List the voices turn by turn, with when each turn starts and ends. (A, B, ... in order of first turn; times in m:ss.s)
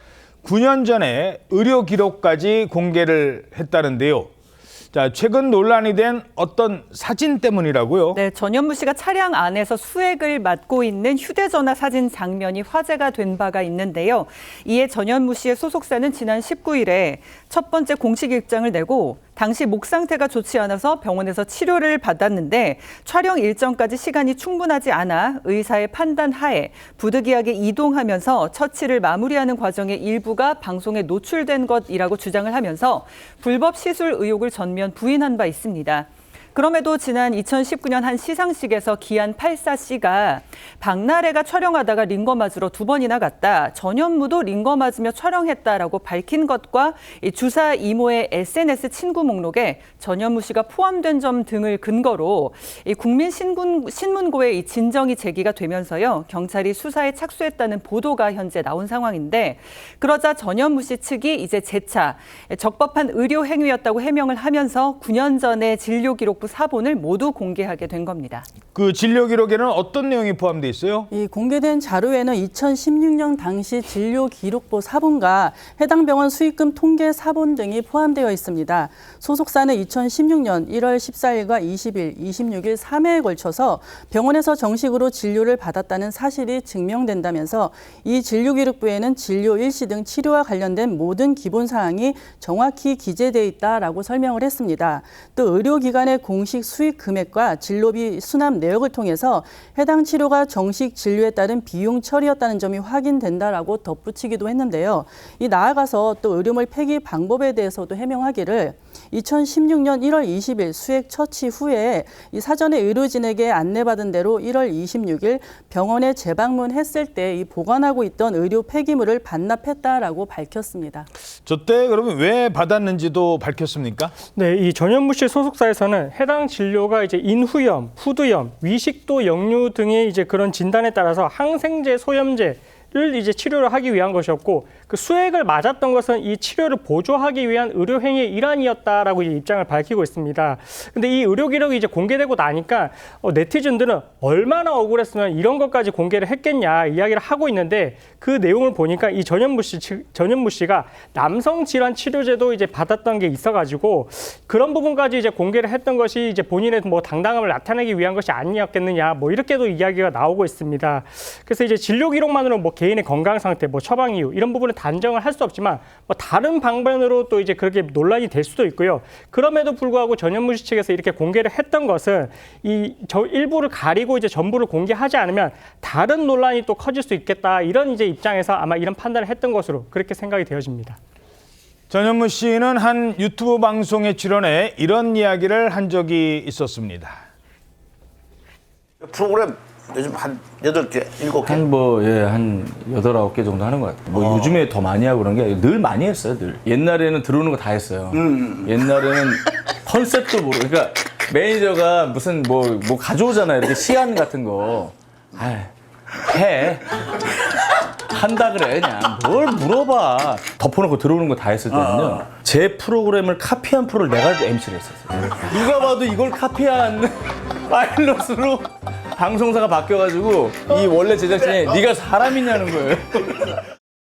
0:00.4-0:04.3 A
0:04.9-0:08.2 A
0:08.2-1:08.5 B
1:08.8-1:11.1 A
1:11.1-2:01.1 C
2:01.5-2:04.1 A
2:04.4-3:01.0 D
3:01.9-3:07.2 A
3:09.0-3:11.7 E
3:11.4-3:25.7 F
3:14.2-3:14.6 E
3:26.2-3:26.8 F
3:28.1-3:37.1 F
3:37.7-3:43.6 F